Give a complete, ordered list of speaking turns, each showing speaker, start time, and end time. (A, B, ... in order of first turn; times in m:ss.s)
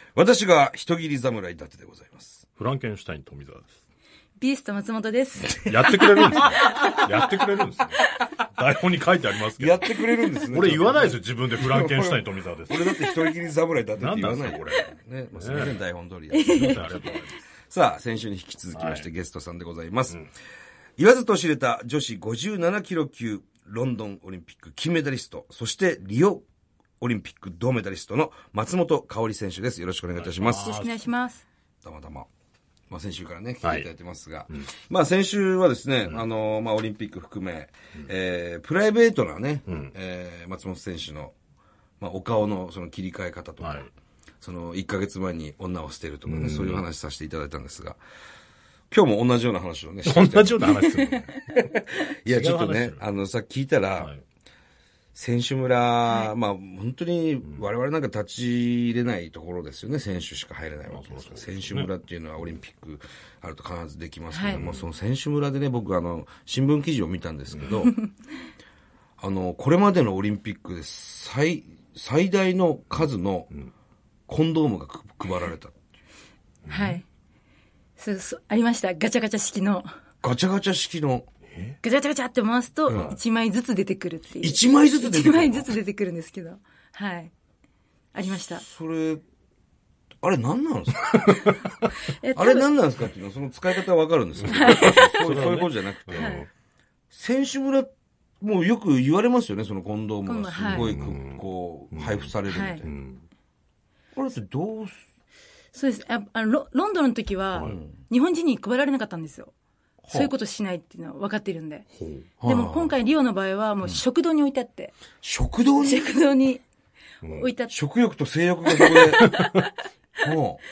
0:00.2-0:02.4 A
0:02.6-0:03.7 B
0:04.4-0:07.3 C
0:05.6-0:09.9 B
0:09.6-0:17.0 A
0:10.5-0:12.9 B
0:12.8-0:13.1 C
0:14.0-0:15.8 B
0:16.3-0:17.1 C
0:16.5-0:17.4 B
0:17.7-0:20.2 A
0:18.7-0:19.1 B
0:21.0-0:26.4 A
0:27.0-0:30.8 A
0:30.2-0:31.1 B
0:30.6-0:31.4 C
0:31.8-0:32.3 A
0:32.9-0:41.3 A
0:33.6-0:33.9 B
0:39.7-0:39.9 B
0:42.0-0:43.9 A
0:43.6-0:43.9 B
0:44.4-0:48.0 A
0:46.3-0:46.8 B
0:48.9-0:50.7 A
0:50.0-0:51.6 B
0:50.9-0:51.2 C
0:51.5-0:54.1 A
0:52.3-0:53.1 B
0:55.2-1:08.0 A
0:56.1-0:56.3 C
1:00.9-1:01.9 B
1:04.3-1:04.6 C
1:04.5-1:04.9 B
1:07.5-1:07.8 B
1:09.2-1:13.5 A
1:14.3-1:15.8 A
1:16.6-1:17.0 B
1:16.7-1:17.0 C
1:18.0-1:19.9 C
1:20.2-1:21.3 A
1:21.5-1:21.8 B
1:21.8-1:27.3 C
1:22.9-1:23.2 A
1:22.9-1:23.2 B
1:24.4-1:25.8 A
1:28.1-1:28.6 C
1:28.5-1:29.2 A
1:30.2-1:31.1 A
1:31.1-1:31.9 B
1:32.1-1:32.7 C
1:32.4-1:36.4 A
1:34.4-1:36.5 B
1:34.5-1:35.2 C
1:36.1-1:36.5 C
1:37.1-1:42.9 A
1:40.2-1:41.0 C
1:40.6-1:43.2 B
1:42.5-1:42.8 C
1:44.2-1:45.0 A
1:45.7-1:49.5 C
1:47.6-1:48.0 A
1:50.0-1:50.3 A
1:50.1-1:51.9 C
1:51.9-1:52.6 B
1:52.4-1:55.0 C
1:52.5-1:52.9 A
1:55.2-1:56.1 A
1:55.8-1:56.6 C
1:57.2-1:57.5 B
1:57.3-1:57.8 C
1:57.7-1:59.3 A
1:58.7-1:59.7 C
1:59.2-1:59.6 B
2:00.2-2:00.6 A